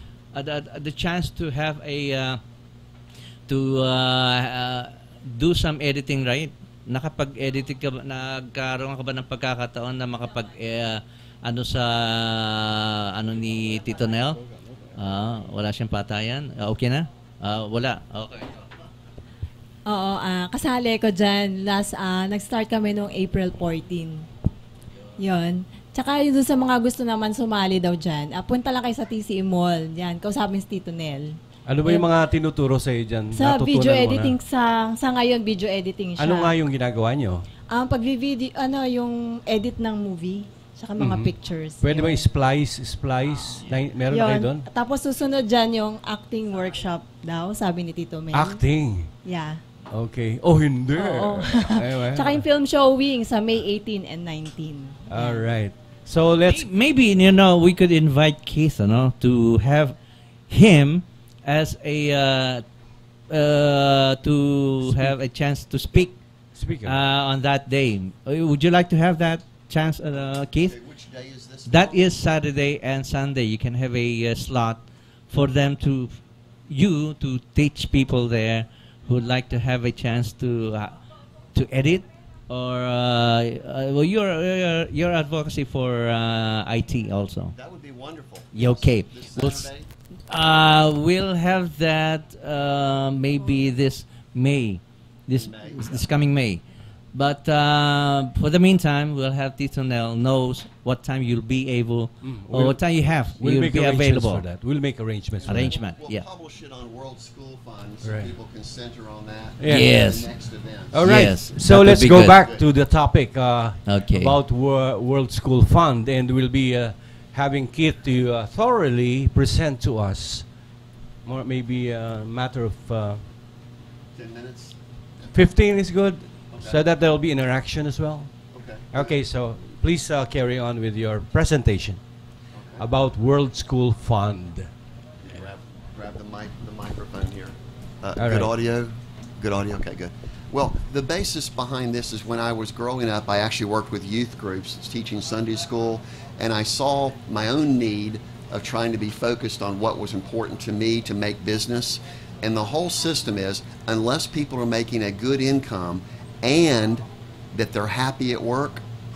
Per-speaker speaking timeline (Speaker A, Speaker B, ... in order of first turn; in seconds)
Speaker A: 0.3-2.4, 3.5-14.4, 14.9-18.7, 56.5-60.0, 60.5-62.6, 63.3-66.2, 66.8-70.8, 71.7-81.0, 81.5-87.5, 88.5-89.7, 90.3-96.6, 97.1-104.5, 105.5-106.2, 109.6-110.3, 111.0-112.4, 113.9-114.4
Speaker B: 19.9-24.2, 25.2-31.3, 33.3-36.5, 37.7-42.2, 44.1-48.6, 49.2-49.6, 51.0-55.5
Speaker C: 31.7-34.4, 36.2-37.5, 41.0-44.7, 48.3-49.1, 49.9-52.4, 55.1-56.7, 64.8-65.1, 66.5-67.1, 102.2-102.8, 103.3-105.8, 108.0-108.3, 109.6-109.9, 110.9-120.5, 121.3-123.2, 125.3-128.3, 128.9-132.0, 132.8-134.7, 138.2-138.5
Speaker D: 70.5-72.2, 87.5-89.9, 95.3-96.1, 105.4-111.0, 112.2-112.7, 124.2-125.3, 126.5-126.8, 128.5-129.2, 132.6-132.8, 135.2-158.8